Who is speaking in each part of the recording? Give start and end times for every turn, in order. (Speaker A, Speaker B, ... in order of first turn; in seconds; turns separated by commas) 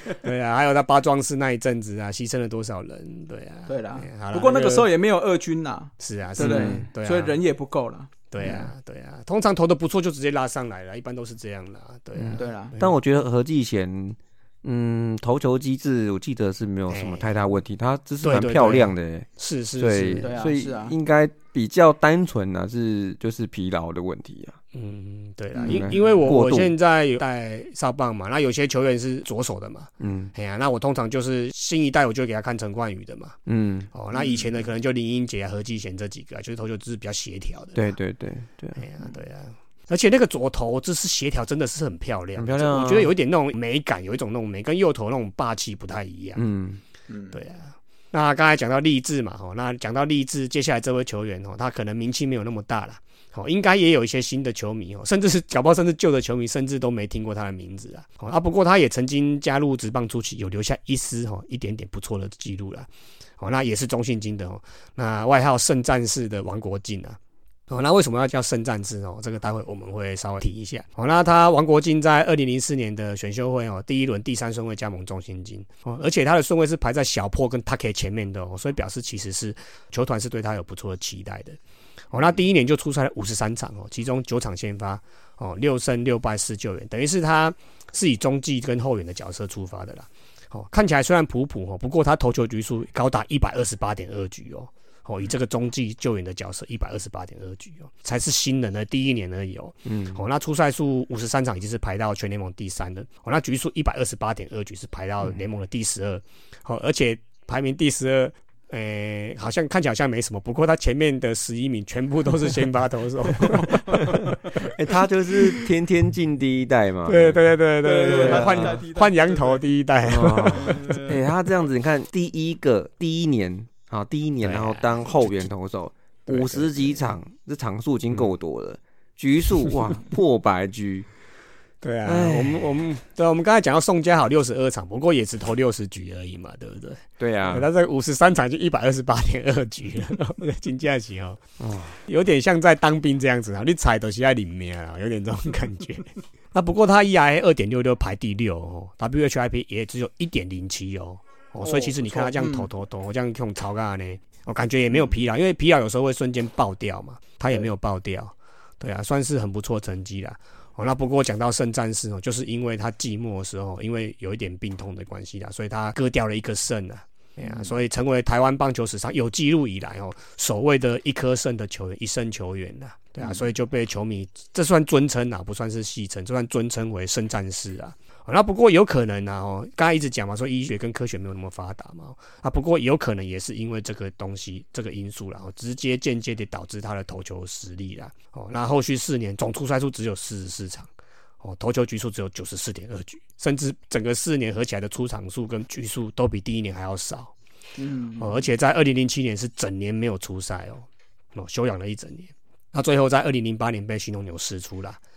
Speaker A: 0.2-4.9, Speaker B: 3.7-8.7, Speaker A: 6.0-7.4, Speaker C: 6.4-6.8, Speaker A: 8.3-12.9, Speaker C: 12.2-19.3, Speaker B: 12.3-12.7, Speaker A: 16.9-17.4, Speaker A: 18.2-20.4, Speaker C: 19.8-24.6, Speaker B: 20.2-20.9, Speaker A: 24.7-33.4, Speaker B: 25.6-25.9, Speaker C: 25.6-26.7, Speaker C: 30.0-30.3, Speaker C: 33.5-33.9, Speaker A: 33.9-37.8, Speaker B: 34.1-34.4, Speaker C: 37.7-38.8, Speaker A: 38.8-46.4, Speaker C: 42.4-43.1, Speaker C: 46.4-46.8, Speaker B: 47.1-47.4, Speaker A: 47.3-62.9, Speaker A: 63.4-67.2, Speaker A: 67.7-81.6, Speaker A: 82.1-114.3, Speaker C: 99.8-100.2, Speaker C: 114.5-117.5, Speaker A: 117.0-120.8, Speaker B: 117.8-119.6, Speaker C: 118.1-118.8, Speaker C: 120.0-131.1, Speaker B: 120.6-121.2, Speaker A: 124.4-125.4, Speaker A: 126.3-127.0, Speaker A: 131.8-141.4, Speaker C: 132.0-132.7, Speaker C: 137.2-137.7, Speaker C: 141.6-142.0, Speaker A: 142.0-190.9, Speaker B: 151.6-152.7, Speaker A: 191.4-197.3, Speaker B: 197.8-198.4, Speaker A: 198.2-205.0